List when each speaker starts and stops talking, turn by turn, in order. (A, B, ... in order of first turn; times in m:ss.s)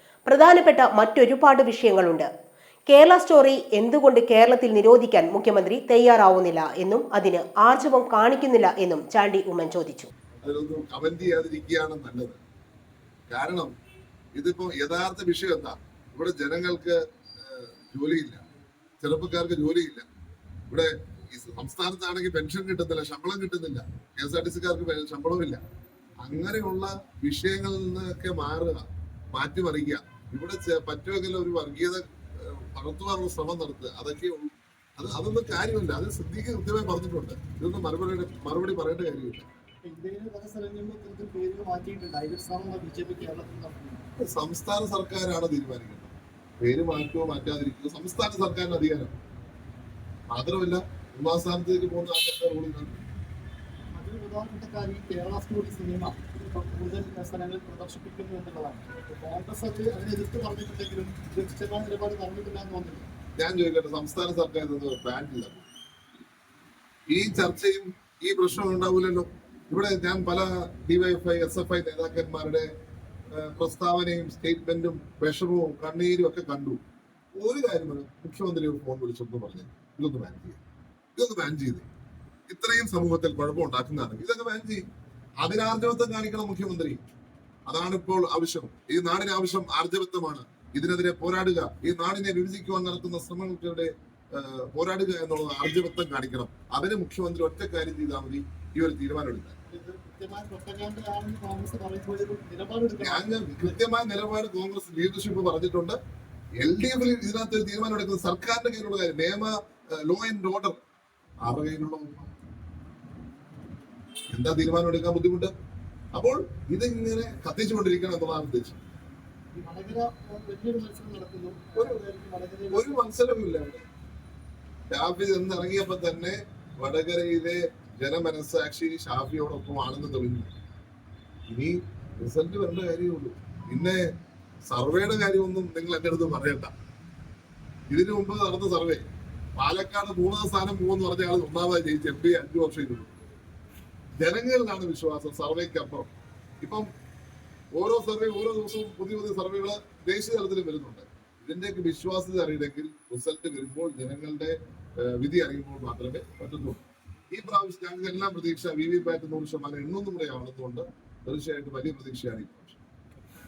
0:00.3-0:02.3 A
0:02.9-0:10.1 A
0:10.4-0:12.4 B
0:13.3-0:13.7 B
0:14.4-0:18.4 B
0:19.0-0:20.1 B
0:20.7-0:25.6 B
0:26.2-0:39.5 B
0:39.8-0:44.0 C
0:44.2-0:49.1 B
0:50.3-0:53.0 B
0:54.0-1:03.1 C
1:03.4-1:05.7 B
1:07.1-1:12.7 B
1:13.3-1:16.8 B
1:17.4-1:20.6 B
1:21.2-1:21.9 B
1:22.5-1:24.8 B
1:25.4-1:27.0 B
1:27.7-1:39.6 B
1:39.7-1:43.8 C
1:43.0-1:46.0 B
1:46.6-1:50.8 B
1:51.4-1:52.3 B
1:54.3-1:55.5 B
1:56.1-1:59.0 B
1:59.6-2:03.0 C
2:02.7-2:03.9 B
2:04.9-2:10.5 B
2:11.5-2:14.0 B
2:14.7-2:16.7 B
2:17.9-2:19.0 B
2:19.6-2:23.1 B
2:24.2-2:26.1 B
2:26.6-2:26.9 B
2:27.7-2:42.8 B